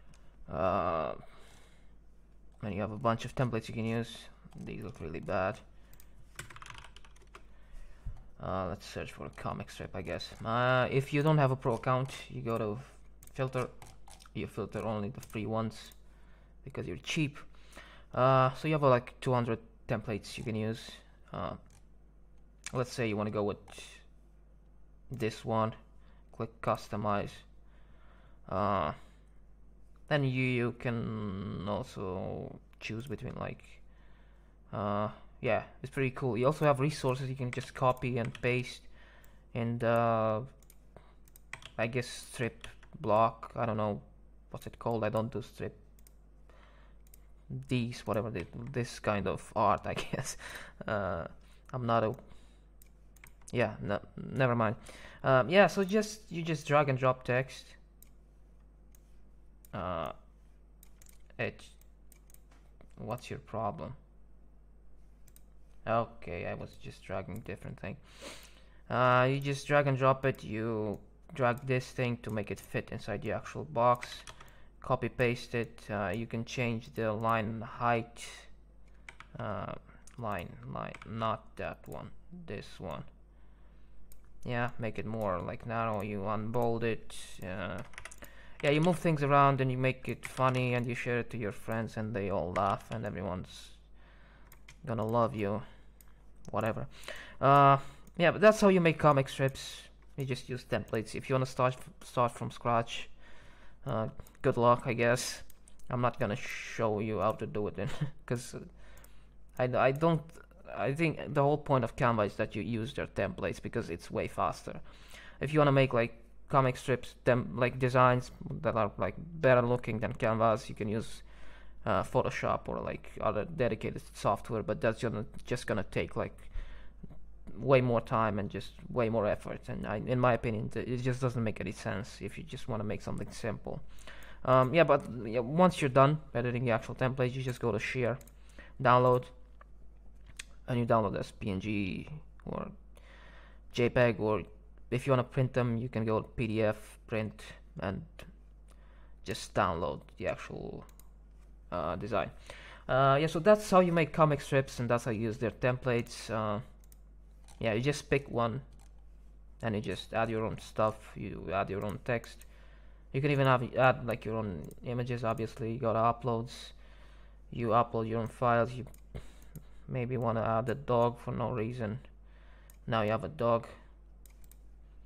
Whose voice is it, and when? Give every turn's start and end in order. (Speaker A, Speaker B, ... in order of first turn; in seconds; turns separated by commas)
Speaker A: 0.5-1.5, Speaker A: 2.6-5.7, Speaker A: 8.4-24.4, Speaker A: 25.1-27.8, Speaker A: 28.5-29.4, Speaker A: 30.1-40.6, Speaker A: 41.8-46.2, Speaker A: 47.5-52.9, Speaker A: 53.5-57.8, Speaker A: 59.7-60.6, Speaker A: 61.4-62.3, Speaker A: 63.0-64.0, Speaker A: 65.8-78.7, Speaker A: 79.3-83.2, Speaker A: 84.4-94.2, Speaker A: 94.8-139.8, Speaker A: 140.7-173.8